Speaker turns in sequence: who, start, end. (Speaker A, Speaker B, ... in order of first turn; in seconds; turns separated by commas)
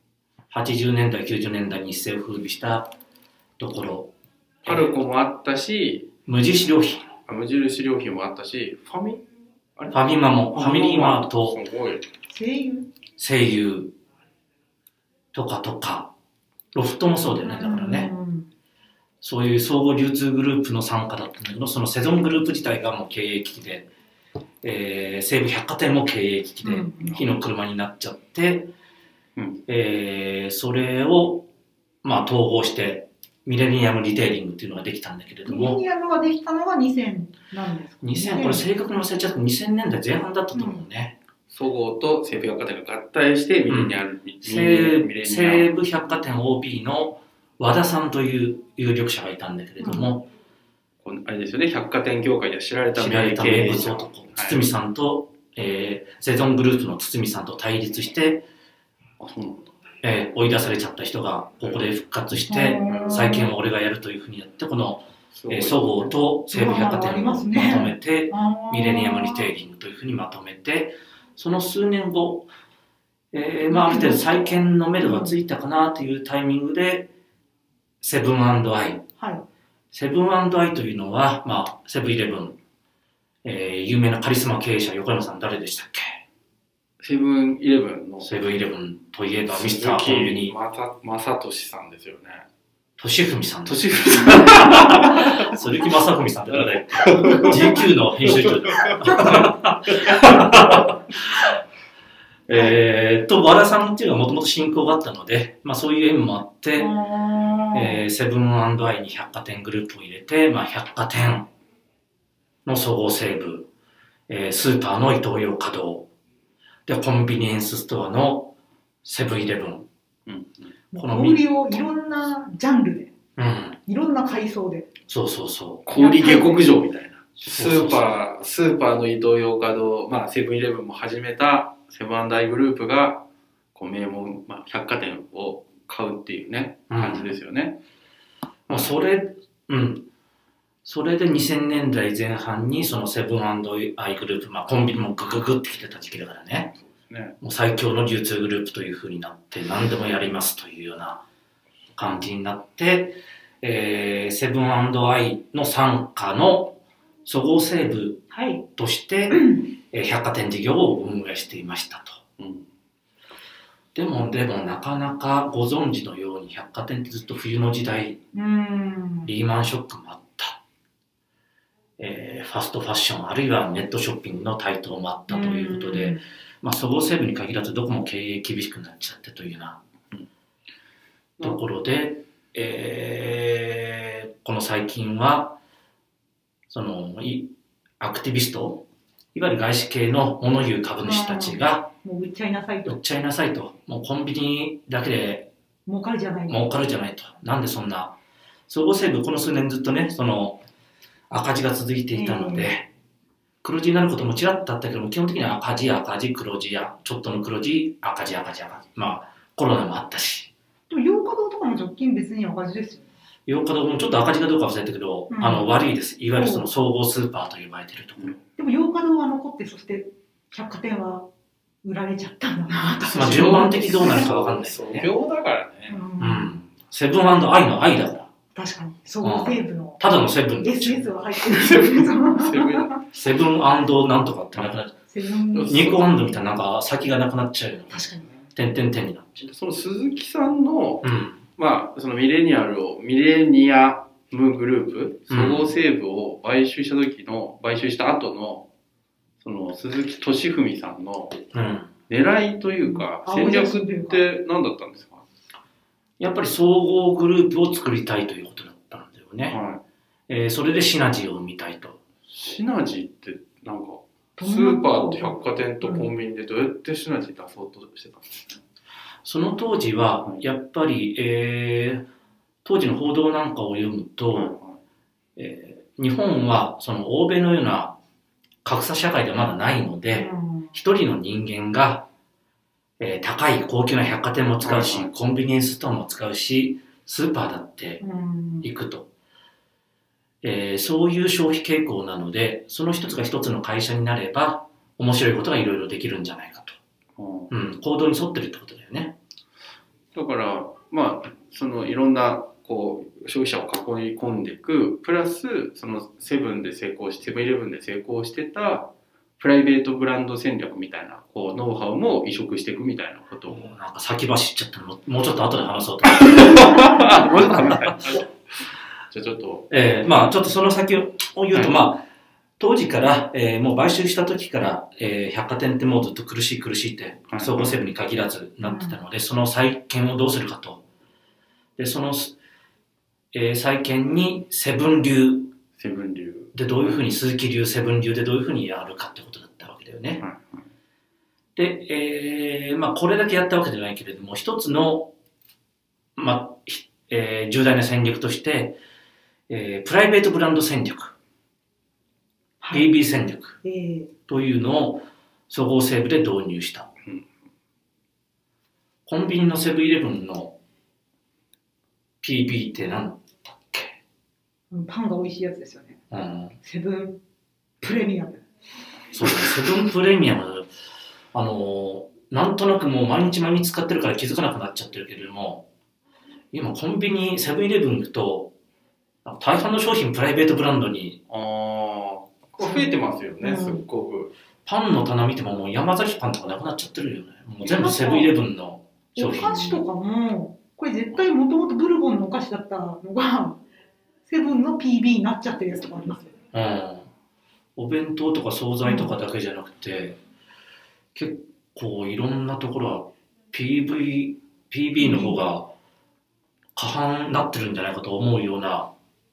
Speaker A: 0.5-2.9, Speaker A: 3.6-4.1, Speaker A: 4.6-5.0, Speaker B: 4.6-6.1, Speaker A: 6.2-7.1, Speaker B: 7.2-9.2, Speaker B: 9.8-12.1, Speaker A: 9.9-11.6, Speaker C: 12.3-12.9, Speaker A: 13.2-13.9, Speaker A: 15.3-16.1, Speaker A: 16.7-18.1, Speaker C: 17.4-18.5, Speaker A: 19.2-23.9, Speaker A: 24.6-28.7, Speaker C: 26.6-27.2, Speaker B: 29.4-29.6, Speaker A: 29.7-31.5, Speaker A: 32.0-35.8, Speaker C: 35.5-38.6, Speaker A: 38.0-41.1, Speaker C: 40.5-40.8, Speaker B: 41.5-45.7, Speaker A: 43.7-50.3, Speaker C: 49.8-50.1, Speaker B: 51.0-54.6, Speaker A: 52.9-58.4, Speaker B: 59.2-59.7, Speaker A: 60.0-72.5, Speaker C: 62.5-63.5, Speaker B: 62.9-63.3, Speaker B: 65.3-66.2, Speaker C: 66.5-69.5, Speaker A: 73.3-77.1, Speaker C: 73.7-75.3, Speaker A: 78.0-79.0, Speaker C: 79.2-79.4, Speaker A: 79.9-82.6, Speaker A: 83.4-86.2, Speaker B: 87.0-88.3, Speaker A: 88.2-90.5, Speaker B: 89.5-92.5, Speaker A: 93.0-101.5, Speaker B: 93.7-95.5, Speaker B: 96.7-97.7, Speaker C: 97.2-97.8, Speaker B: 98.2-98.9, Speaker A: 102.5-107.0, Speaker C: 106.8-108.0, Speaker A: 107.7-111.5, Speaker A: 112.7-113.7, Speaker A: 114.3-116.1, Speaker A: 116.8-119.9, Speaker B: 120.2-120.7, Speaker C: 120.9-123.1, Speaker A: 121.0-121.4, Speaker A: 123.4-123.8, Speaker C: 123.8-124.9, Speaker A: 125.1-125.8, Speaker B: 125.8-137.8, Speaker C: 125.9-126.6, Speaker A: 127.4-128.2, Speaker A: 136.9-137.3, Speaker A: 138.7-140.1, Speaker A: 140.8-146.7, Speaker B: 146.8-147.3, Speaker A: 147.4-151.2, Speaker A: 151.9-162.2, Speaker C: 158.3-158.7, Speaker C: 159.3-159.7, Speaker B: 162.4-162.7, Speaker A: 163.9-168.2, Speaker C: 168.3-169.3, Speaker A: 169.2-170.6, Speaker A: 172.0-179.8, Speaker C: 175.3-176.2, Speaker A: 181.4-185.6, Speaker A: 186.7-188.8, Speaker A: 189.3-191.9, Speaker C: 191.0-193.0, Speaker A: 192.8-195.5, Speaker C: 195.8-196.7, Speaker A: 196.5-198.2, Speaker A: 198.7-200.6, Speaker A: 201.3-202.9, Speaker C: 202.1-202.7, Speaker A: 203.6-210.5, Speaker C: 210.9-213.1, Speaker A: 213.4-218.4, Speaker C: 215.3-215.7, Speaker C: 216.3-216.7, Speaker C: 218.6-221.3, Speaker C: 221.8-224.2, Speaker B: 223.1-226.0, Speaker A: 223.1-225.1, Speaker C: 225.9-226.5, Speaker A: 226.2-228.3, Speaker C: 228.5-230.0, Speaker A: 229.2-231.2, Speaker C: 230.6-233.0, Speaker B: 231.4-233.0, Speaker A: 233.1-234.9, Speaker B: 234.5-234.8, Speaker C: 235.1-235.9, Speaker B: 235.5-236.0, Speaker A: 235.7-239.5, Speaker B: 238.1-238.4, Speaker B: 239.4-248.7, Speaker A: 241.0-241.4, Speaker A: 245.3-245.7, Speaker B: 249.4-251.4, Speaker A: 251.5-251.9, Speaker B: 252.1-255.2, Speaker C: 252.8-254.3, Speaker A: 256.2-259.6, Speaker B: 259.5-259.8, Speaker A: 260.3-262.0, Speaker B: 262.3-268.6, Speaker C: 264.4-266.1, Speaker A: 269.2-272.1, Speaker A: 272.6-274.5, Speaker B: 274.3-274.8, Speaker A: 275.4-277.9, Speaker A: 278.6-282.1, Speaker C: 280.1-280.8, Speaker A: 283.0-288.0, Speaker B: 284.6-285.1, Speaker C: 288.0-288.7, Speaker A: 288.6-289.1, Speaker A: 290.4-296.8, Speaker B: 297.1-297.5, Speaker A: 297.5-299.1, Speaker B: 300.1-313.7, Speaker A: 313.5-318.2, Speaker B: 316.1-318.3, Speaker B: 319.1-319.7, Speaker A: 319.7-322.0, Speaker A: 322.6-330.8, Speaker B: 327.3-327.8, Speaker C: 328.6-329.0, Speaker A: 331.8-332.4, Speaker A: 333.3-335.5, Speaker B: 335.7-337.0, Speaker A: 336.5-340.2, Speaker B: 340.2-340.7, Speaker A: 341.6-345.1, Speaker A: 346.1-348.8, Speaker A: 349.5-351.1, Speaker C: 352.6-352.9, Speaker A: 352.7-353.6, Speaker C: 353.6-354.1, Speaker A: 354.3-356.9, Speaker A: 359.1-360.5, Speaker A: 362.2-364.0, Speaker C: 364.7-366.0, Speaker A: 366.1-366.6, Speaker C: 366.6-367.2, Speaker C: 367.8-368.4, Speaker A: 369.1-370.7, Speaker A: 371.3-375.6, Speaker A: 376.5-378.5, Speaker A: 379.2-381.2, Speaker B: 381.3-384.3, Speaker C: 382.6-383.8, Speaker A: 384.6-389.8, Speaker C: 387.6-388.3, Speaker C: 389.1-393.6, Speaker C: 394.2-396.3, Speaker A: 396.5-397.1, Speaker A: 397.8-400.2, Speaker C: 398.8-399.1, Speaker A: 401.1-405.7, Speaker C: 405.0-405.4, Speaker A: 406.8-408.9